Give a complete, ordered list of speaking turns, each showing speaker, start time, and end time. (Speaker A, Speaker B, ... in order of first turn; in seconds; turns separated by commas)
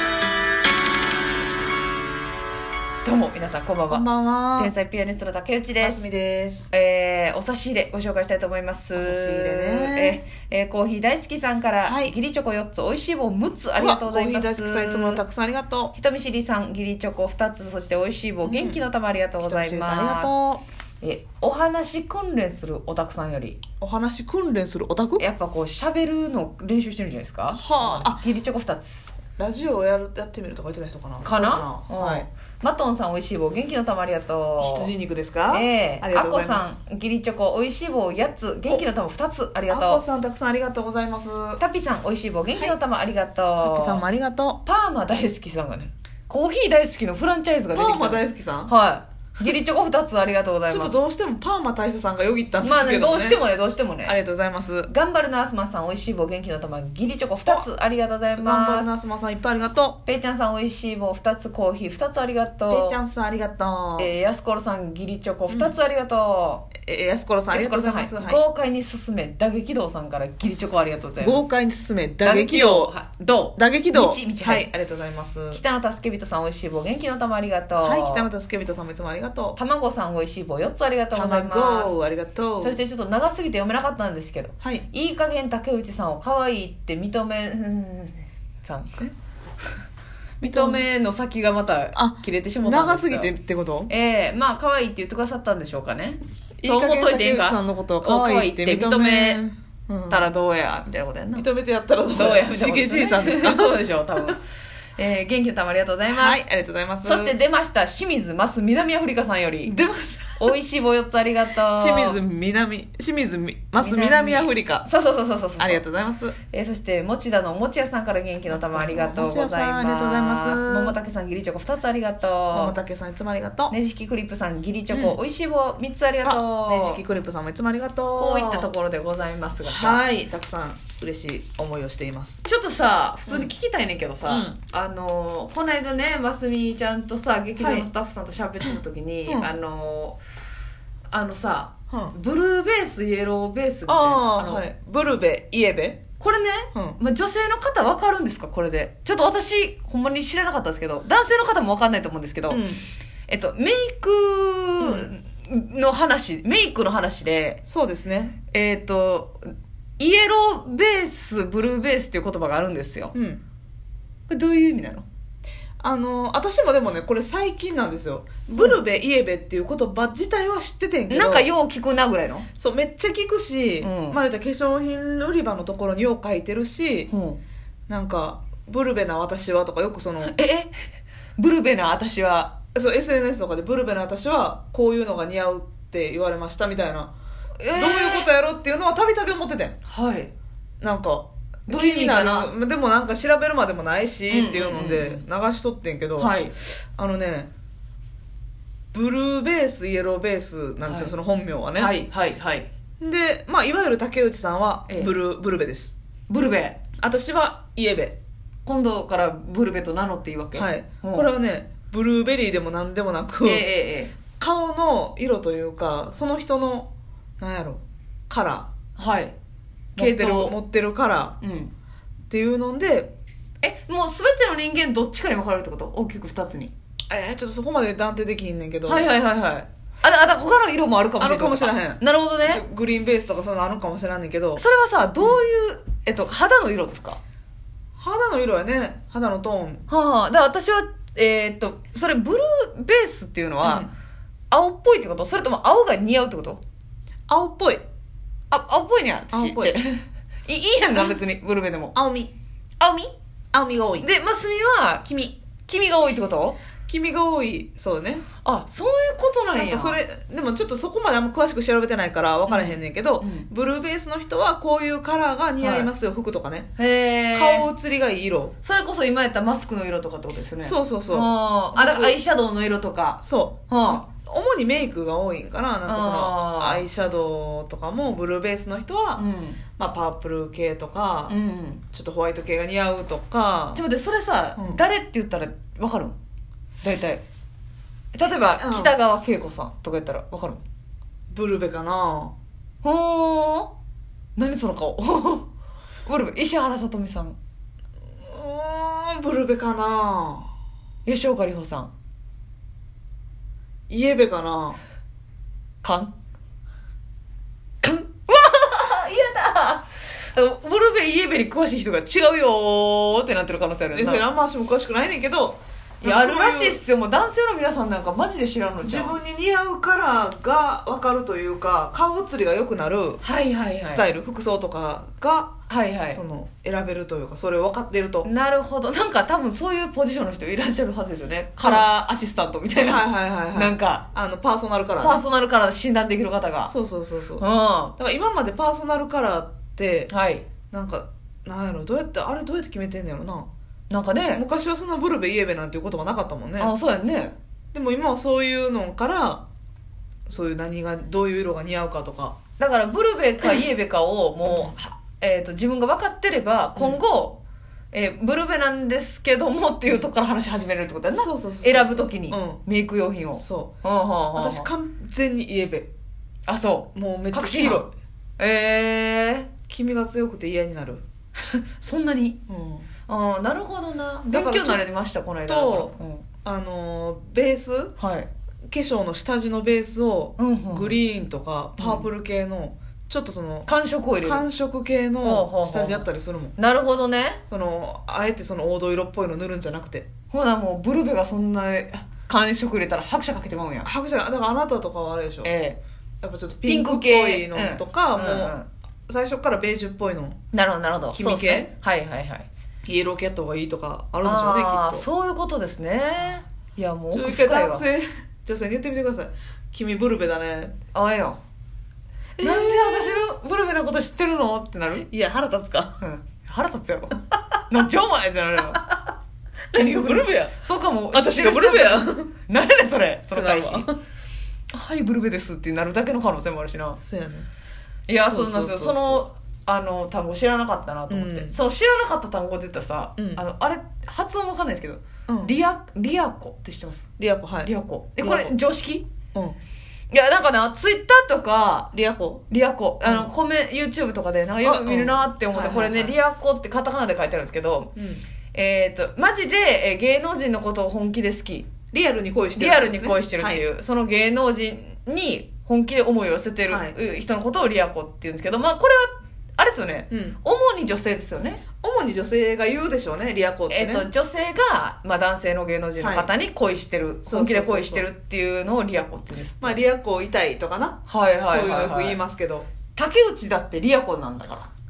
Speaker A: 3.0-4.0, Speaker B: 3.9-4.7, Speaker A: 4.6-6.0, Speaker B: 5.8-6.7, Speaker A: 6.7-15.2, Speaker B: 8.9-10.2, Speaker B: 11.9-12.1, Speaker B: 13.8-15.9, Speaker A: 15.9-20.3, Speaker B: 18.4-18.8, Speaker B: 19.4-20.6, Speaker A: 21.0-23.6, Speaker B: 23.8-25.2, Speaker A: 25.2-29.1, Speaker B: 27.6-28.2, Speaker B: 29.4-32.3, Speaker A: 31.2-34.9, Speaker B: 34.6-36.7, Speaker A: 35.5-40.0, Speaker B: 39.7-41.6, Speaker A: 41.6-44.0, Speaker B: 43.6-44.6, Speaker A: 44.6-51.0, Speaker B: 47.7-48.7, Speaker B: 50.7-53.4, Speaker A: 52.6-54.2, Speaker B: 54.1-54.9, Speaker A: 54.9-58.9, Speaker B: 58.4-60.0, Speaker A: 60.0-63.0, Speaker B: 62.7-64.1, Speaker A: 64.0-66.7, Speaker B: 65.5-65.8, Speaker B: 66.8-68.4, Speaker A: 67.5-71.5, Speaker B: 71.2-72.9, Speaker A: 72.2-74.7, Speaker B: 73.6-75.6, Speaker A: 75.5-78.3, Speaker B: 77.8-79.6, Speaker A: 79.6-82.0, Speaker B: 81.1-82.8, Speaker A: 82.6-89.1, Speaker B: 84.6-84.9, Speaker A: 90.4-93.3, Speaker B: 90.4-90.9, Speaker B: 92.0-93.9, Speaker A: 93.9-99.4, Speaker B: 96.6-100.3, Speaker A: 100.1-101.5, Speaker B: 101.3-103.8, Speaker A: 102.1-104.4, Speaker A: 105.0-106.4, Speaker B: 106.1-107.3, Speaker A: 107.0-109.8, Speaker B: 109.7-110.5, Speaker A: 110.4-112.2, Speaker B: 111.7-114.9, Speaker A: 113.8-115.8, Speaker B: 115.6-116.4, Speaker A: 116.5-122.8, Speaker B: 118.5-121.0, Speaker B: 122.5-123.8, Speaker A: 123.7-127.0, Speaker B: 124.9-125.2, Speaker B: 126.2-128.7, Speaker A: 128.2-130.0, Speaker B: 129.7-132.4, Speaker A: 132.4-140.2, Speaker B: 134.2-134.6, Speaker B: 137.6-137.9, Speaker B: 138.6-139.5, Speaker A: 141.1-144.6, Speaker B: 141.9-142.2, Speaker B: 143.9-146.0, Speaker A: 146.2-152.6, Speaker B: 146.7-147.0, Speaker B: 152.5-152.8, Speaker A: 153.3-157.6, Speaker B: 154.8-155.1, Speaker B: 157.7-158.4, Speaker A: 158.5-159.4, Speaker A: 160.0-163.1, Speaker B: 163.1-163.4, Speaker A: 164.3-165.1, Speaker B: 165.8-171.5, Speaker A: 171.1-172.5, Speaker B: 172.6-177.1, Speaker A: 173.8-174.2, Speaker A: 177.1-177.4, Speaker B: 177.9-180.4, Speaker A: 180.2-180.7, Speaker A: 181.4-182.5, Speaker B: 182.8-187.1, Speaker A: 187.6-188.3, Speaker B: 187.8-189.8, Speaker A: 189.9-190.3, Speaker B: 190.8-197.5, Speaker A: 191.7-192.5, Speaker A: 194.3-195.2, Speaker A: 196.2-196.5, Speaker B: 198.9-201.9, Speaker A: 200.8-201.1, Speaker A: 201.8-202.7, Speaker B: 203.0-205.9, Speaker A: 204.9-205.1, Speaker A: 206.3-206.8, Speaker B: 207.0-208.2, Speaker A: 208.7-211.3, Speaker B: 210.6-213.7, Speaker A: 213.4-214.1, Speaker B: 214.3-218.7, Speaker A: 219.0-219.3, Speaker A: 220.0-220.6, Speaker B: 220.0-221.4, Speaker A: 221.4-221.7, Speaker B: 222.3-223.1, Speaker A: 223.6-226.7, Speaker B: 227.1-229.1, Speaker A: 228.9-232.6, Speaker B: 231.2-234.6, Speaker A: 234.6-237.2, Speaker B: 238.0-239.9, Speaker A: 239.9-243.9, Speaker B: 243.6-243.9, Speaker A: 244.5-246.6, Speaker B: 247.3-247.8, Speaker A: 248.5-251.9, Speaker B: 249.3-249.8, Speaker B: 251.9-252.3, Speaker A: 252.8-253.1, Speaker B: 253.5-254.1, Speaker A: 254.0-255.1, Speaker B: 255.1-255.4, Speaker A: 255.7-256.6, Speaker B: 256.9-258.2, Speaker A: 258.4-260.0, Speaker B: 259.6-266.7, Speaker A: 262.5-263.5, Speaker A: 265.6-265.9, Speaker A: 266.8-267.7, Speaker B: 267.3-268.6, Speaker A: 268.6-274.0, Speaker B: 270.6-272.2, Speaker B: 273.2-279.2, Speaker A: 275.9-276.9, Speaker A: 279.2-279.6, Speaker B: 279.8-281.4, Speaker A: 281.3-281.8, Speaker B: 281.9-283.8, Speaker A: 283.8-286.2, Speaker B: 284.6-284.8, Speaker A: 286.8-287.2, Speaker A: 288.1-290.6, Speaker B: 288.6-288.9, Speaker B: 291.3-292.4, Speaker A: 292.8-293.7, Speaker A: 294.4-295.5, Speaker A: 296.1-297.4, Speaker B: 298.2-300.5, Speaker A: 301.1-301.9, Speaker B: 303.9-304.8, Speaker A: 305.8-306.1, Speaker A: 307.8-314.2, Speaker B: 313.9-316.8, Speaker A: 316.0-319.2, Speaker B: 318.8-323.2, Speaker A: 323.2-324.0, Speaker B: 323.8-325.6, Speaker A: 325.7-326.2, Speaker B: 326.1-328.3, Speaker A: 328.2-334.1, Speaker B: 332.8-335.2, Speaker A: 335.0-336.7, Speaker B: 336.7-337.5, Speaker A: 337.4-337.9, Speaker B: 338.0-340.1, Speaker A: 340.1-340.4, Speaker B: 340.7-343.5, Speaker A: 343.9-344.4, Speaker B: 344.4-346.7, Speaker A: 346.6-347.3, Speaker B: 347.7-349.4, Speaker B: 350.3-352.4, Speaker A: 352.6-357.4, Speaker B: 354.5-354.7, Speaker A: 357.9-364.7, Speaker B: 361.1-362.6, Speaker B: 363.4-363.7, Speaker B: 364.4-365.9, Speaker A: 366.5-367.9, Speaker B: 366.9-367.9, Speaker A: 368.4-369.5, Speaker B: 369.7-371.0, Speaker A: 371.4-372.4, Speaker B: 372.5-372.9, Speaker A: 373.1-376.2, Speaker B: 374.3-374.8, Speaker B: 375.5-377.9, Speaker A: 378.0-378.3, Speaker B: 378.7-383.7, Speaker A: 380.4-381.0, Speaker A: 381.8-382.1, Speaker A: 383.7-384.4, Speaker B: 384.2-386.6, Speaker A: 385.2-387.4, Speaker B: 387.5-390.1, Speaker A: 390.3-393.9, Speaker B: 393.9-395.5, Speaker A: 395.4-395.8, Speaker B: 396.2-400.4, Speaker A: 396.7-398.7, Speaker A: 400.5-402.5, Speaker B: 401.1-401.7, Speaker B: 402.9-405.1, Speaker A: 404.2-407.9, Speaker B: 407.1-410.8, Speaker A: 410.9-411.4, Speaker B: 412.4-413.2, Speaker A: 412.4-415.1, Speaker B: 415.1-415.9, Speaker A: 416.0-418.9, Speaker B: 419.7-420.5, Speaker A: 419.7-423.9, Speaker B: 421.1-422.3, Speaker B: 423.3-424.0, Speaker A: 424.7-427.0, Speaker B: 427.0-427.5, Speaker A: 428.1-437.1, Speaker B: 428.2-429.2, Speaker B: 431.1-431.6, Speaker B: 433.2-433.4, Speaker B: 435.3-435.5, Speaker B: 437.2-438.6, Speaker A: 437.6-439.1, Speaker A: 440.1-441.9, Speaker B: 441.9-442.4, Speaker A: 442.5-447.9, Speaker B: 443.0-443.3, Speaker B: 444.6-446.1, Speaker B: 448.0-448.2, Speaker A: 448.5-451.7, Speaker B: 451.9-453.6, Speaker A: 452.6-461.6, Speaker B: 456.7-457.0, Speaker B: 460.1-460.4, Speaker B: 461.8-464.1, Speaker A: 463.7-469.8, Speaker B: 466.0-466.3, Speaker B: 467.3-468.1, Speaker B: 469.6-472.7, Speaker A: 471.1-472.2, Speaker A: 472.9-474.7